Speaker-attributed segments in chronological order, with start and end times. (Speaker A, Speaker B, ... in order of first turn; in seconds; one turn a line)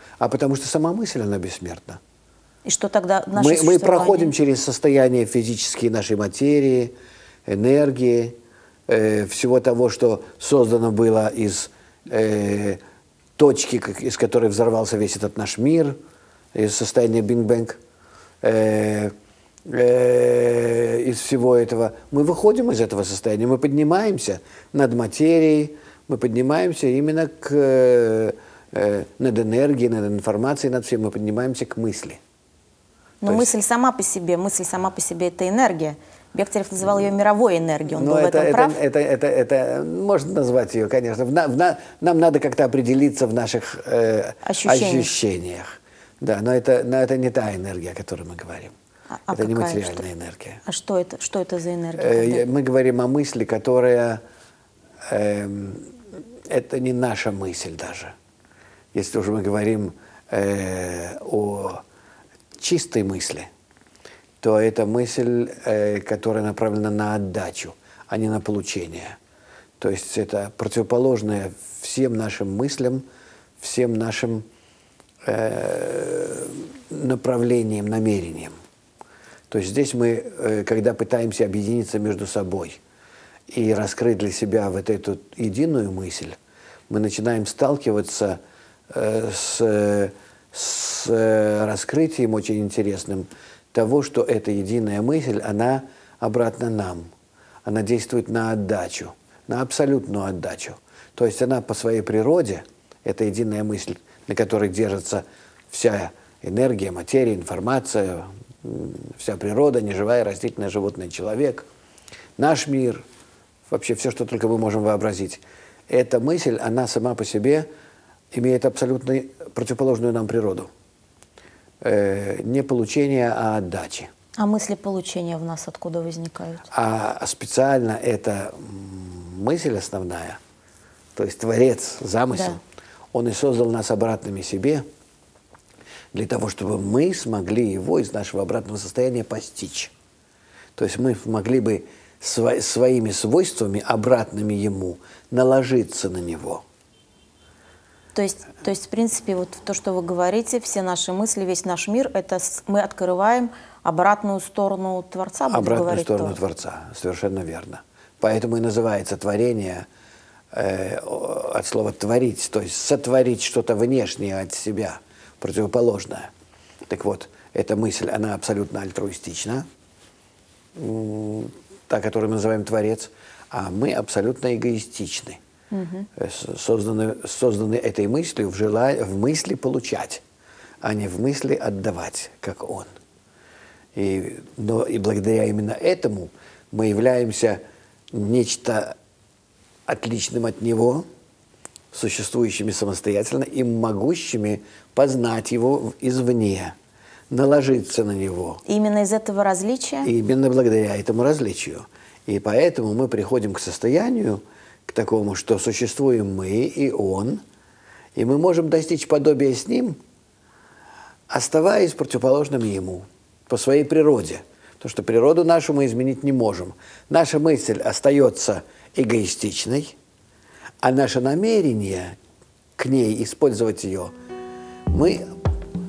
Speaker A: 0.2-2.0
Speaker B: 2.6-4.3
Speaker A: 3.4-6.9
Speaker A: 7.5-8.3
Speaker A: 8.9-12.8
Speaker A: 13.4-15.9
Speaker A: 16.5-17.8
Speaker A: 18.4-19.1
Speaker A: 19.7-32.2
Speaker B: 33.2-38.8
Speaker A: 33.3-33.5
Speaker A: 37.9-48.7
Speaker B: 44.4-45.1
Speaker B: 49.2-50.0
Speaker A: 49.3-50.6
Speaker B: 50.6-52.5
Speaker A: 52.0-54.2
Speaker A: 55.1-55.9
Speaker A: 56.5-58.1
Speaker A: 58.9-61.8
Speaker A: 62.6-63.5
Speaker A: 64.4-69.2
Speaker A: 69.8-73.0
Speaker A: 73.6-74.4
Speaker A: 75.2-78.5
Speaker A: 79.5-82.8
Speaker A: 83.5-86.3
Speaker A: 86.9-88.4
Speaker A: 88.9-97.1
Speaker A: 97.6-111.7
Speaker A: 112.4-113.0
Speaker A: 113.7-117.7
Speaker A: 118.3-120.7
Speaker A: 121.8-124.1
Speaker B: 124.4-126.7
Speaker A: 126.7-130.4
Speaker A: 131.2-132.6
Speaker B: 132.3-132.6
Speaker A: 133.1-134.8
Speaker A: 136.1-139.9
Speaker A: 140.8-146.6
Speaker B: 148.1-156.4
Speaker A: 155.5-159.8
Speaker A: 160.5-166.3
Speaker A: 166.9-169.7
Speaker A: 170.8-175.4
Speaker B: 175.7-176.1
Speaker A: 176.2-180.2
Speaker A: 180.8-182.9
Speaker A: 183.9-187.6
Speaker A: 188.1-188.9
Speaker A: 189.9-191.0
Speaker A: 191.9-196.7
Speaker A: 197.3-198.6
Speaker B: 198.7-200.1
Speaker A: 200.0-207.4
Speaker A: 208.1-210.0
Speaker A: 211.3-219.9
Speaker A: 220.8-222.2
Speaker A: 222.8-224.1
Speaker A: 224.9-225.2